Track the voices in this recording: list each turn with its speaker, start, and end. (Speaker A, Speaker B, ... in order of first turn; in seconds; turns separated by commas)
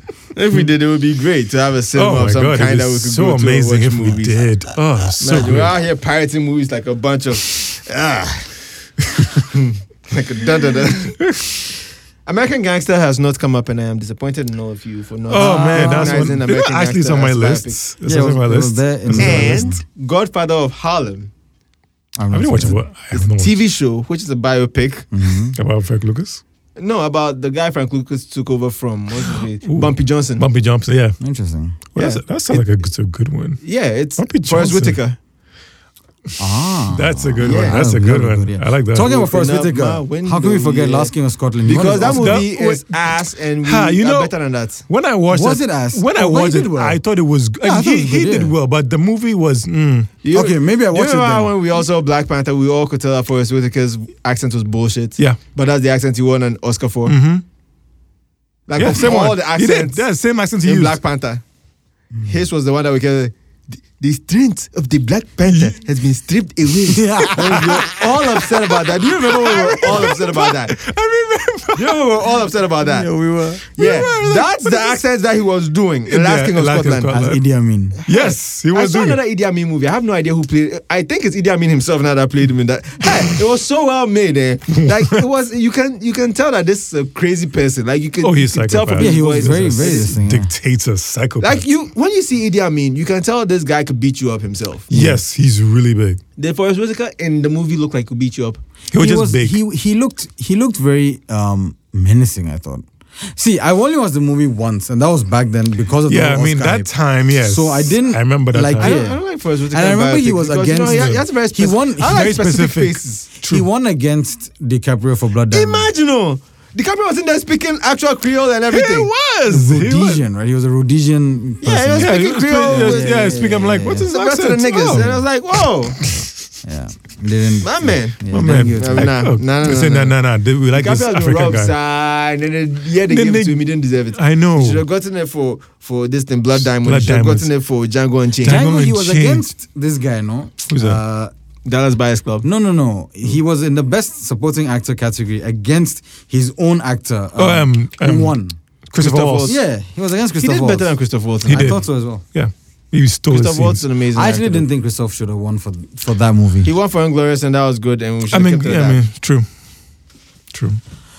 Speaker A: 0.3-8.5, Speaker B: 1.9-5.7, Speaker A: 9.5-11.2, Speaker B: 11.2-11.5, Speaker A: 12.2-17.8, Speaker B: 15.3-19.7, Speaker C: 15.4-16.4, Speaker C: 18.0-19.8, Speaker A: 19.2-21.3, Speaker C: 22.2-22.8, Speaker B: 22.3-23.6, Speaker A: 23.1-25.1, Speaker C: 25.1-25.6, Speaker B: 25.5-26.4, Speaker A: 26.8-30.4, Speaker B: 29.6-31.2, Speaker C: 31.2-31.8, Speaker B: 31.9-33.6, Speaker A: 31.9-32.8, Speaker A: 33.6-35.2, Speaker B: 34.2-35.0, Speaker B: 36.4-39.1, Speaker C: 36.4-42.4, Speaker A: 37.4-37.8, Speaker A: 39.0-41.1, Speaker A: 41.6-44.8, Speaker B: 41.9-44.3, Speaker B: 44.9-50.1, Speaker C: 45.3-47.0, Speaker C: 47.6-48.5, Speaker A: 50.2-57.1, Speaker C: 50.3-51.5, Speaker B: 57.0-57.4, Speaker A: 58.7-60.0, Speaker B: 58.8-61.0, Speaker A: 60.6-61.4, Speaker A: 62.2-70.8, Speaker B: 65.5-65.8, Speaker C: 66.9-68.0, Speaker B: 67.2-67.9, Speaker B: 69.1-72.0, Speaker A: 71.7-73.1, Speaker C: 72.9-74.0, Speaker B: 73.2-75.0, Speaker A: 73.7-77.2, Speaker B: 76.1-77.4, Speaker C: 77.1-78.0, Speaker A: 78.0-90.1, Speaker B: 78.1-79.2, Speaker B: 88.2-91.6, Speaker C: 89.0-90.5, Speaker A: 91.4-95.1, Speaker B: 94.9-96.2, Speaker A: 96.4-98.6, Speaker B: 98.9-99.6, Speaker C: 99.0-106.9, Speaker B: 106.1-109.0, Speaker C: 107.4-112.2, Speaker A: 108.8-113.2, Speaker B: 112.0-113.7, Speaker C: 113.4-115.9, Speaker A: 115.5-119.1, Speaker B: 118.7-120.2, Speaker C: 119.5-124.1, Speaker A: 121.6-123.3, Speaker B: 122.0-125.1, Speaker A: 124.1-126.0, Speaker C: 124.9-125.2, Speaker B: 125.9-126.3, Speaker C: 126.6-129.1, Speaker A: 127.6-130.2, Speaker B: 128.3-131.7, Speaker A: 130.7-138.7, Speaker B: 133.1-134.8, Speaker B: 136.8-137.5, Speaker B: 138.4-139.4, Speaker C: 138.4-141.3, Speaker B: 140.7-141.0, Speaker A: 141.7-142.5, Speaker C: 142.4-148.6, Speaker B: 147.4-148.4, Speaker B: 148.9-149.6, Speaker A: 149.0-149.6, Speaker C: 149.4-150.9, Speaker A: 150.4-151.8, Speaker C: 151.4-152.2, Speaker B: 151.4-153.8, Speaker A: 153.3-154.7, Speaker C: 154.1-156.7, Speaker A: 156.6-159.1, Speaker B: 158.3-159.4, Speaker B: 160.5-160.8